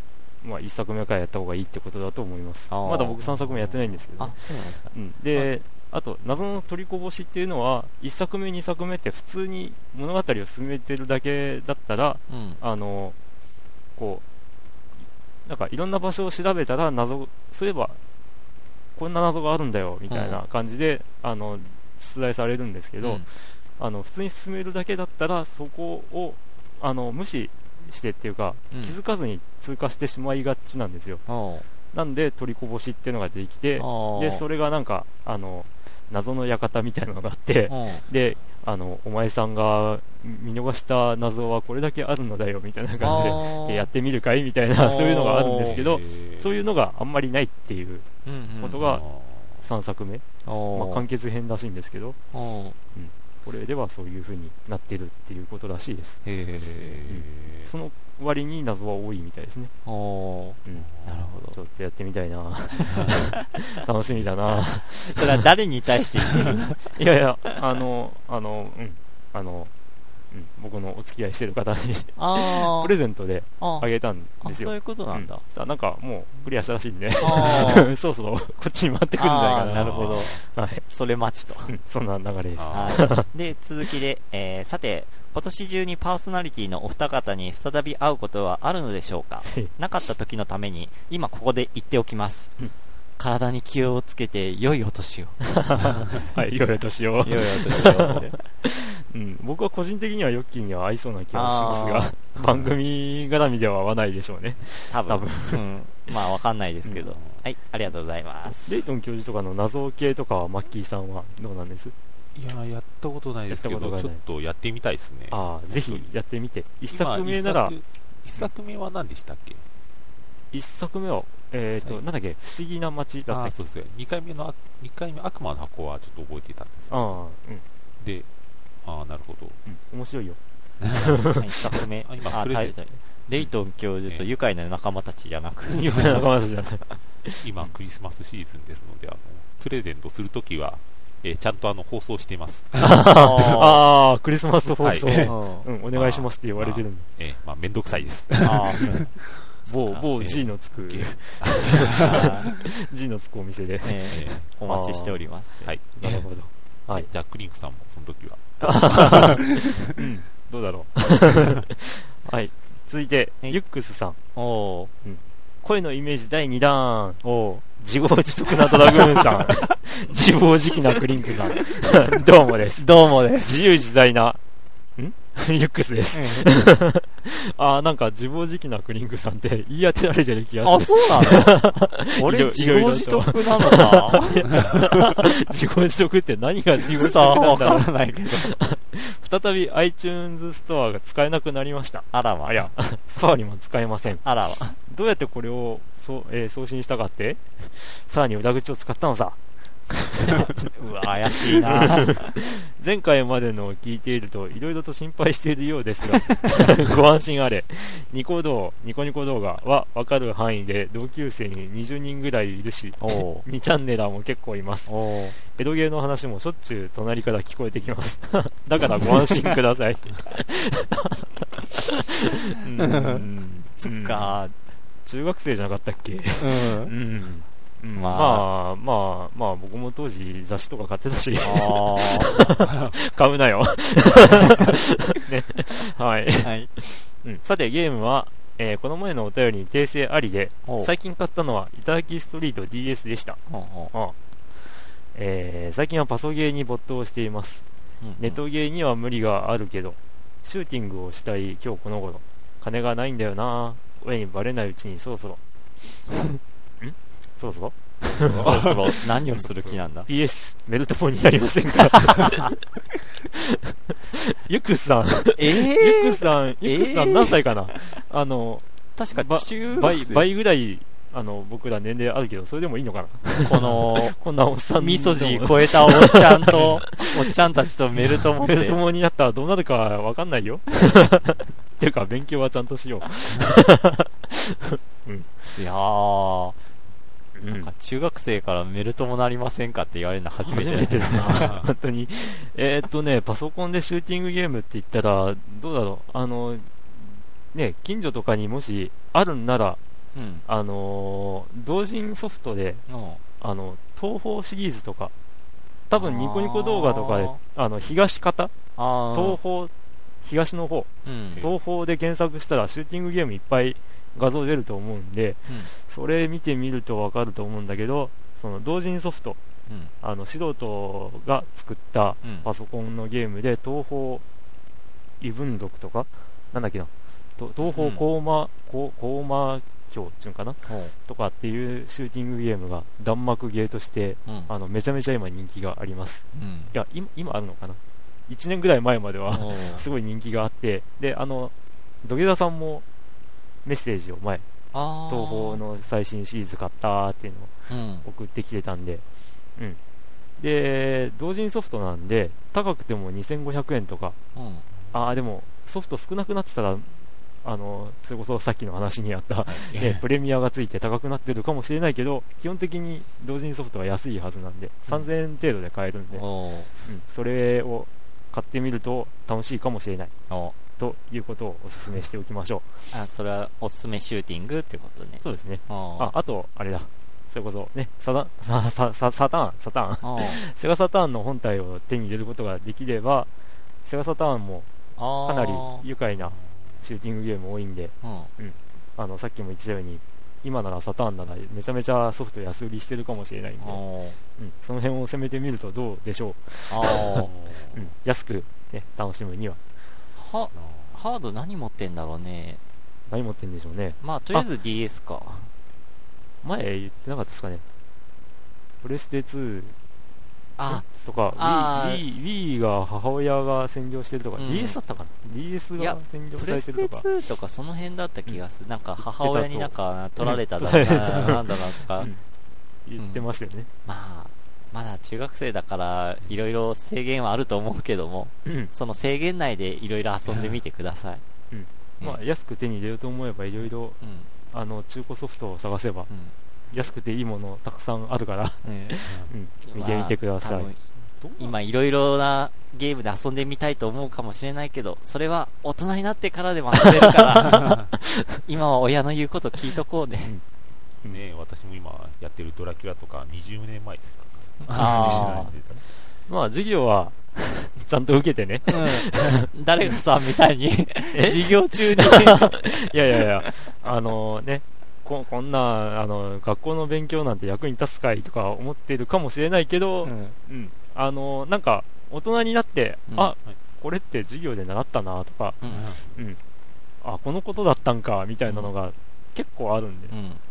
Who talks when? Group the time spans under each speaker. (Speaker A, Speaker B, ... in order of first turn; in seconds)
Speaker A: 0.4-13.2, 14.0-14.2, 15.4-18.0, 18.9-31.2, 31.9-48.0, 48.6-49.0, 49.6-52.2, 52.9-56.2, 57.1-59.7, 61.5-65.4, 66.8-69.7, 70.3-80.8, 81.7-83.3, 89.5-89.7, 95.5-105.6, 108.7-111.9, 113.5-114.2, 115.3-117.7, 120.5-123.6, 126.9-127.6, 129.7-130.4, 130.9-131.5, 135.7-137.4, 142.8-147.1, 149.7-157.1, 158.6-164.2, 165.0-167.2, 167.8-172.9, 173.4-174.4, 175.0-194.2, 194.8-199.4, 199.9-200.5, 201.5-224.3, 225.1-243.4, 245.1-247.6, 248.2-255.4, 256.8-258.5, 260.1-262.6, 263.3-277.3, 278.4-285.5, 287.4-287.7, 290.4-296.7, 297.5-299.8, 300.4-302.8, 303.4-305.1, 305.9-308.5, 309.1-309.7, 310.2-319.4, 320.0-324.2, 325.2-342.8, 343.6-344.4, 345.1-347.5, 348.0-349.0, 350.4-354.2, 354.9-366.2, 366.8-370.1, 370.8-372.8, 375.2-383.3, 383.8-384.7, 385.2-393.8, 394.4-399.6, 403.1-404.4, 406.4-407.6, 408.8-409.8, 410.7-417.0, 419.2-422.2, 422.9-423.7, 428.4-428.7, 431.5-434.0, 434.5-436.1, 436.7-440.7, 447.0-448.2, 454.7-455.5, 456.3-459.9, 461.1-475.6, 476.1-476.4, 477.0-480.1
Speaker B: 2.7-4.8, 12.3-12.6, 20.1-20.4, 23.0-23.2, 31.3-31.7, 33.8-34.4, 37.7-38.0, 43.0-43.9, 44.7-45.8, 48.2-48.8, 50.4-51.0, 52.3-52.8, 56.2-57.0, 59.8-61.6, 62.9-63.3, 64.9-66.9, 72.2-72.9, 73.6-73.9, 74.4-75.4, 77.2-77.9, 79.2-81.7, 82.7-92.5, 93.2-96.2, 97.2-98.3, 101.3-102.1, 104.9-108.8, 131.3-136.2, 143.0-143.9, 145.2-145.7, 148.4-149.1, 149.6-150.1, 151.8-152.5, 153.8-155.5, 164.3-164.9, 167.2-167.6, 168.7-169.6, 172.8-173.6, 176.1-176.5, 180.6-184.7, 187.0-188.6, 192.1-192.7, 194.2-194.8, 200.7-202.3, 213.0-213.4, 214.9-215.3, 218.9-219.6, 222.6-224.5, 226.4-226.9, 227.9-228.5, 231.4-232.4, 236.4-236.7, 240.7-240.9, 243.5-243.9, 248.0-248.4, 258.2-260.1, 265.3-267.9, 268.9-270.3, 273.4-274.1, 274.7-278.8, 285.6-286.6, 287.5-291.6, 300.1-300.4, 302.9-303.2, 305.9-307.4, 308.8-309.4, 311.0-311.5, 322.2-322.5, 327.6-328.0, 330.6-330.9, 334.3-334.5, 336.3-336.7, 339.3-339.9, 344.7-345.6, 347.7-348.1, 354.4-354.6, 366.1-366.7, 370.3-370.6, 372.9-376.1, 380.0-380.4, 385.0-385.8, 388.0-388.3, 393.6-394.2, 396.7-397.3, 400.1-402.6, 404.0-405.5, 410.6-412.0, 414.4-414.8, 415.8-422.1, 423.0-423.2, 423.8-431.2, 434.0-434.3, 436.1-436.3, 438.6-439.0, 439.6-440.8, 441.4-447.8, 448.4-450.3, 454.6-455.5, 458.6-463.5, 470.0-470.4, 478.4-478.7, 480.1-480.4
Speaker C: 45.6-46.5, 48.8-49.6, 56.8-57.7, 60.7-61.2, 79.7-80.4, 82.5-83.1, 102.4-102.7, 107.1-107.4, 112.3-116.1, 116.9-119.6, 121.7-122.0, 123.3-127.2, 128.0-128.3, 128.8-129.6, 130.8-131.2, 132.0-132.8, 137.4-143.2, 144.8-145.3, 145.9-149.5, 150.1-152.3, 154.1-154.5, 155.6-156.2, 156.9-159.8, 258.2-258.8, 291.3-291.7, 359.5-360.0, 397.3-397.9, 400.5-401.0, 441.2-441.6, 451.1-455.8, 475.7-476.1